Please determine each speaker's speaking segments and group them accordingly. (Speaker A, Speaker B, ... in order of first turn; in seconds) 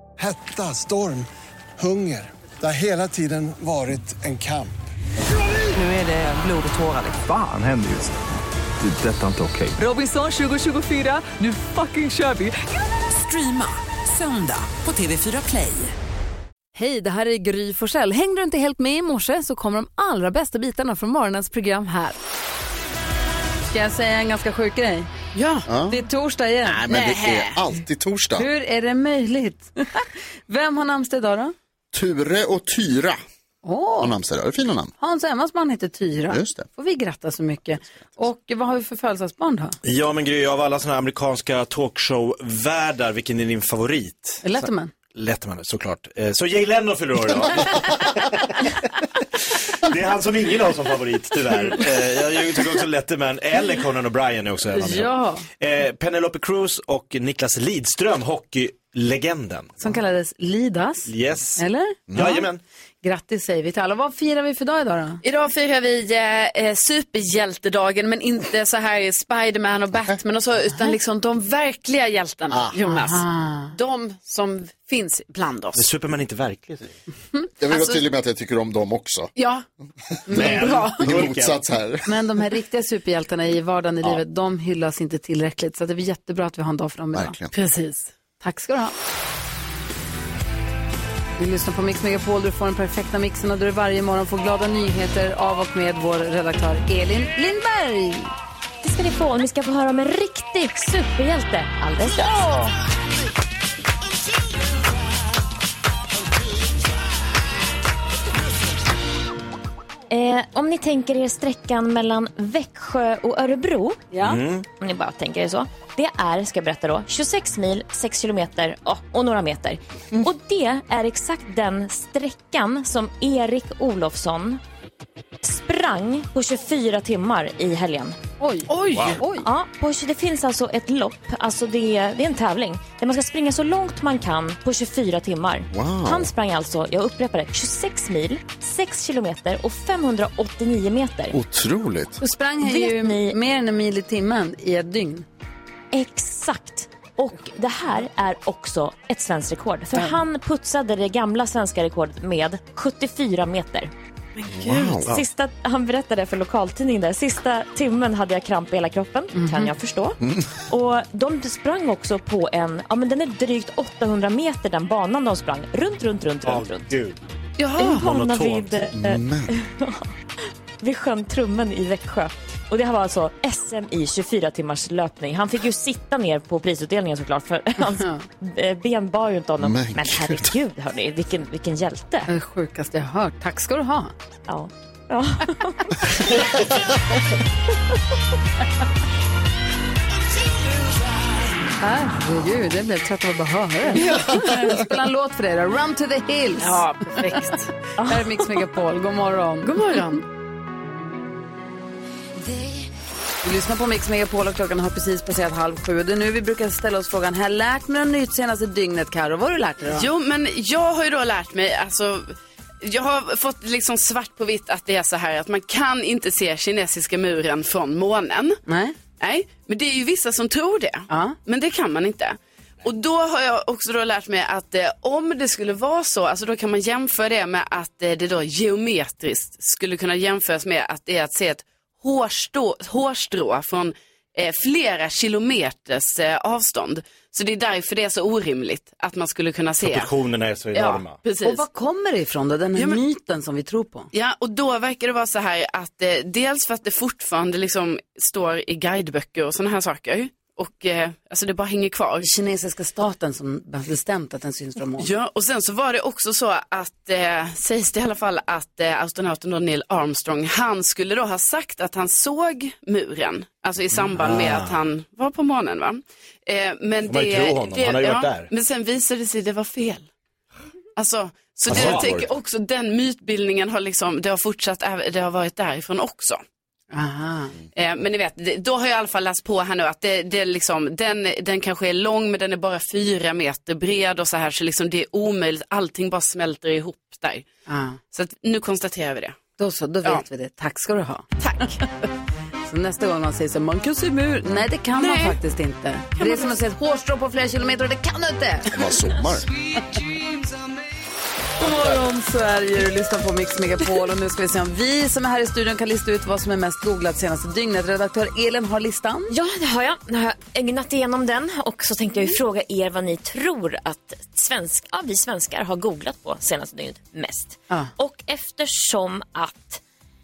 Speaker A: 0.2-1.3, 1.8-4.8
Speaker B: 5.7-7.2, 13.1-15.9
Speaker C: 7.2-9.8
Speaker D: 9.8-12.6, 16.7-22.2, 23.7-25.1, 25.9-26.8, 28.4-31.5, 33.6-34.1, 35.0-39.8, 44.4-44.9, 54.8-55.4, 59.8-62.4, 63.0-65.2, 72.8-73.7, 82.0-87.4, 88.4-88.9, 91.4-98.3, 102.0-102.7, 114.1-114.4, 128.4-129.5, 142.2-145.2, 159.3-159.7, 182.3-184.1, 191.8-197.4, 198.0-199.7, 203.4-210.1, 218.7-218.9, 221.1-221.3, 241.4-244.1, 252.2-255.1, 276.9-277.5, 287.7-288.0, 289.6-291.3, 292.6-298.8, 301.6-309.3
Speaker E: 25.3-25.7, 26.9-27.6, 65.2-75.8, 77.7-78.0, 79.3-79.6, 80.3-81.0, 87.5-88.0, 128.7-129.2, 167.6-168.0, 194.3-194.6, 196.6-197.7, 199.6-200.2, 209.9-218.6, 219.2-240.1, 240.7-241.6, 242.7-243.0, 244.1-252.3, 255.0-270.1, 270.9-276.4, 277.7-287.5, 288.1-289.4, 291.4-291.7, 295.0-295.4
Speaker F: 25.7-26.0, 26.6-28.5, 31.9-33.2, 34.0-34.9, 36.3-36.6, 72.5-72.8, 77.6-79.3, 80.3-82.1, 87.1-87.5, 135.7-136.3, 141.3-142.2, 154.5-155.2, 160.2-160.5, 168.9-169.5, 179.6-180.6, 271.7-272.3, 298.7-299.5
Speaker G: 39.8-49.0, 49.8-59.9, 61.1-62.6, 75.7-76.9, 80.3-81.6, 114.2-114.7, 128.9-129.2, 166.4-167.2, 167.9-168.9, 239.8-241.2, 264.0-264.8, 267.1-268.5, 271.7-272.2
Speaker H: 98.8-102.4, 110.1-114.1, 114.7-124.6, 125.4-128.2, 129.3-141.3, 142.6-143.4, 145.9-153.9, 155.0-166.9, 167.8-170.1, 170.8-182.3, 184.5-186.5, 194.0-194.8, 198.0-198.3, 309.3-319.8